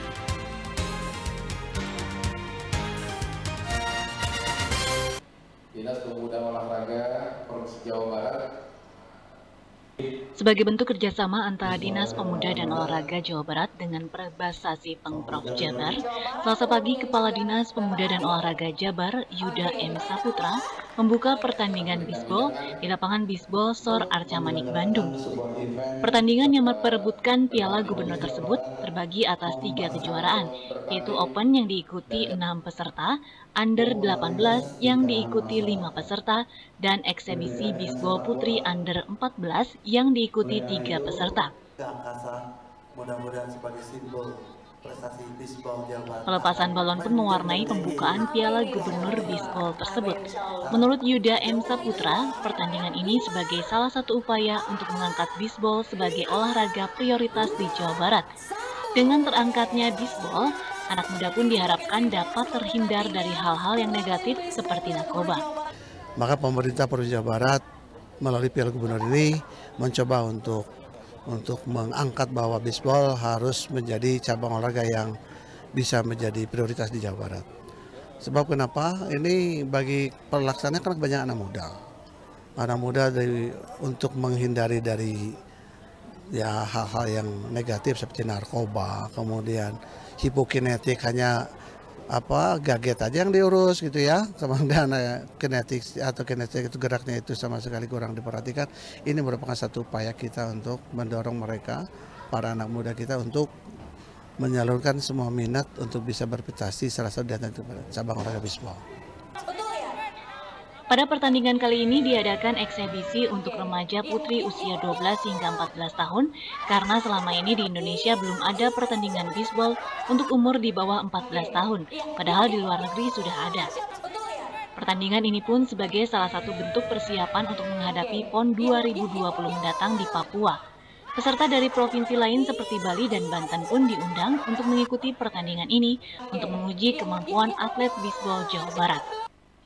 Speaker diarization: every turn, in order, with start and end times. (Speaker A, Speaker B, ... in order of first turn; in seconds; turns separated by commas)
Speaker A: 5.7-8.5, Speaker B: 10.4-25.3, Speaker C: 11.6-13.1, Speaker C: 15.1-15.9, Speaker A: 21.8-22.8, Speaker C: 24.3-25.8, Speaker A: 25.2-28.7, Speaker B: 26.0-41.5, Speaker C: 27.9-28.5, Speaker C: 29.5-30.0, Speaker A: 29.6-31.4, Speaker A: 32.1-32.4, Speaker C: 33.8-35.9, Speaker C: 37.3-38.6, Speaker C: 40.4-42.4, Speaker C: 43.0-48.3, Speaker B: 46.3-58.3, Speaker B: 59.0-65.5, Speaker C: 66.2-67.6, Speaker C: 68.2-70.6, Speaker C: 71.3-75.1, Speaker C: 75.8-77.5, Speaker C: 78.2-81.7, Speaker C: 82.6-85.3, Speaker C: 86.3-91.3, Speaker C: 92.1-101.8, Speaker C: 102.3-103.5, Speaker C: 104.4-108.8, Speaker B: 110.9-123.7, Speaker B: 124.8-130.6, Speaker B: 131.2-139.1